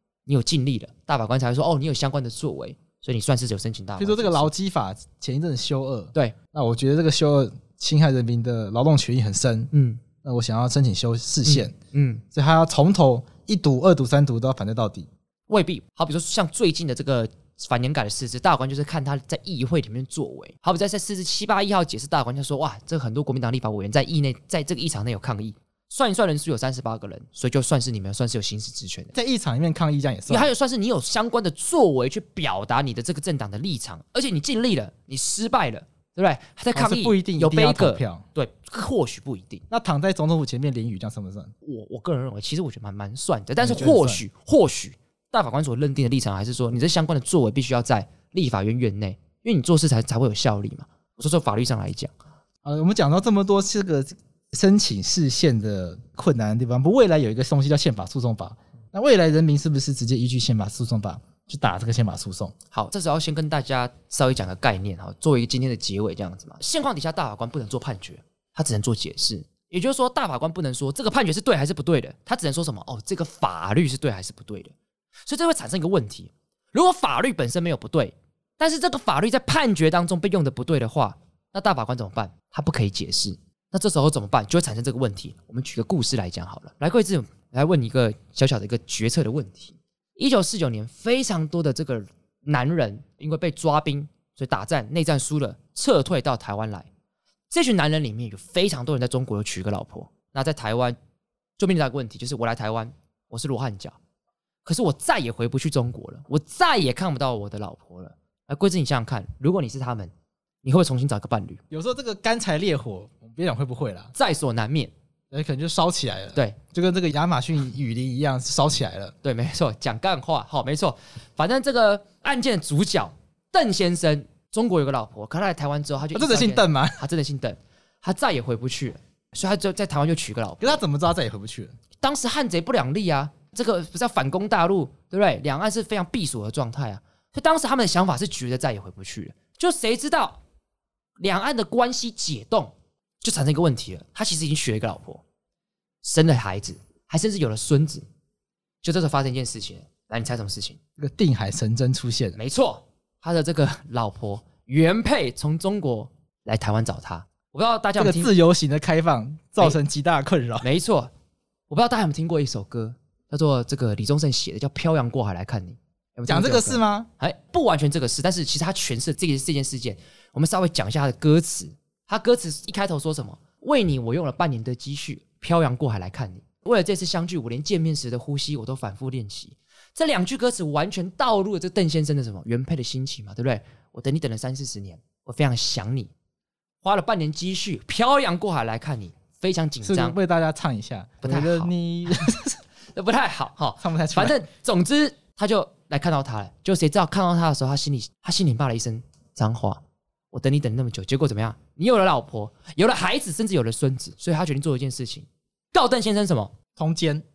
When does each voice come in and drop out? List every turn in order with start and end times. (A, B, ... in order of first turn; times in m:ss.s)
0:00.3-0:04.5 A
0:04.0-0:09.7 B
0:09.7-0:10.0 A
0:10.2-0:11.7 B
0:11.4-0:12.2 A
0:12.3-0:15.1 B
0:15.5-0:29.1 A
0:29.1-0:30.5 B
0:30.3-0:39.6 A
0:36.7-0:38.2 B
0:39.7-0:41.5 B
0:41.6-0:52.1 A
0:43.6-0:44.2 B
0:52.6-1:02.5 B
1:02.7-1:14.7 A
1:15.3-1:36.9 A
1:37.5-1:41.0 A
1:41.6-1:44.0 A
1:44.6-1:50.1 A
1:50.6-1:51.6 A
1:51.7-1:54.1 B
1:54.1-1:54.9 A
1:55.3-1:59.1 B
1:59.2-2:10.8 A
2:06.1-2:07.0 B
2:10.6-2:11.8 B
2:12.0-2:20.4 A
2:21.2-2:25.2 A
2:26.0-2:28.0 A
2:28.8-2:30.8 A
2:31.0-2:32.4 B
2:32.4-2:38.3 A
2:38.0-2:40.7 B
2:40.6-2:41.1 A
2:41.7-3:06.1 A
2:46.3-2:47.1 B
3:06.8-3:10.2 A
3:09.8-3:12.6 B
3:11.2-3:12.3 A
3:12.9-3:26.5 A
3:13.8-3:14.4 B
3:26.8-3:27.2 B